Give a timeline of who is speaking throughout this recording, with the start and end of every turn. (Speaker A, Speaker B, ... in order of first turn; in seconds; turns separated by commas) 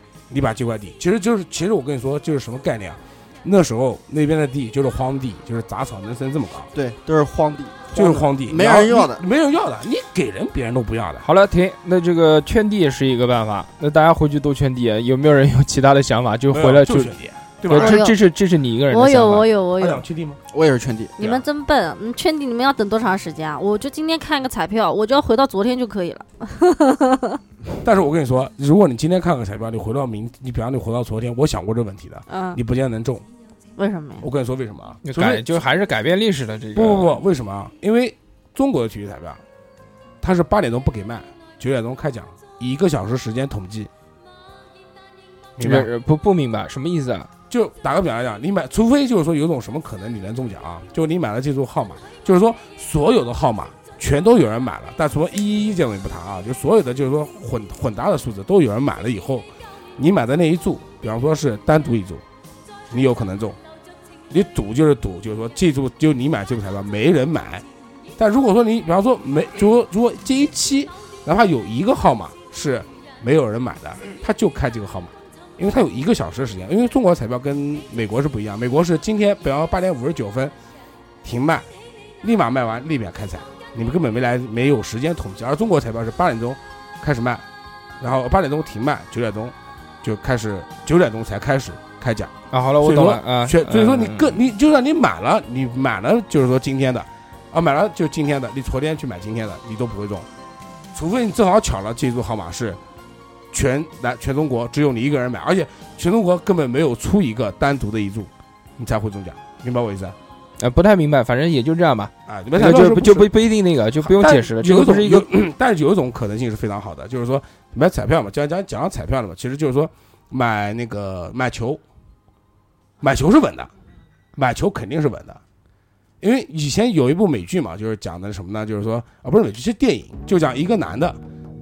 Speaker A: 0.3-6.7, Speaker B: 6.7-9.2, Speaker A: 7.9-11.2, Speaker C: 11.2-17.1, Speaker A: 16.5-18.0, Speaker C: 17.7-19.5, Speaker D: 17.7-18.2, Speaker D: 18.9-20.0, Speaker A: 19.8-20.4, Speaker B: 20.5-21.2, Speaker D: 21.2-27.4, Speaker A: 27.8-33.2, Speaker D: 32.3-32.6, Speaker D: 33.8-34.2, Speaker A: 34.2-35.4, Speaker C: 35.0-37.2, Speaker A: 36.7-39.4, Speaker A: 40.2-43.9, Speaker A: 45.6-45.9, Speaker C: 45.6-47.3, Speaker A: 47.5-59.5, Speaker A: 60.0-62.2, Speaker A: 62.9-63.6, Speaker A: 64.3-67.6, Speaker A: 68.2-80.5, Speaker A: 81.2-81.7, Speaker A: 82.2-87.4, Speaker A: 88.0-100.3, Speaker C: 92.5-94.3, Speaker A: 100.9-102.8, Speaker A: 103.5-110.2, Speaker C: 110.6-115.3, Speaker A: 112.3-113.3, Speaker A: 114.0-121.8, Speaker A: 123.0-123.7, Speaker A: 124.3-125.4, Speaker A: 126.2-131.2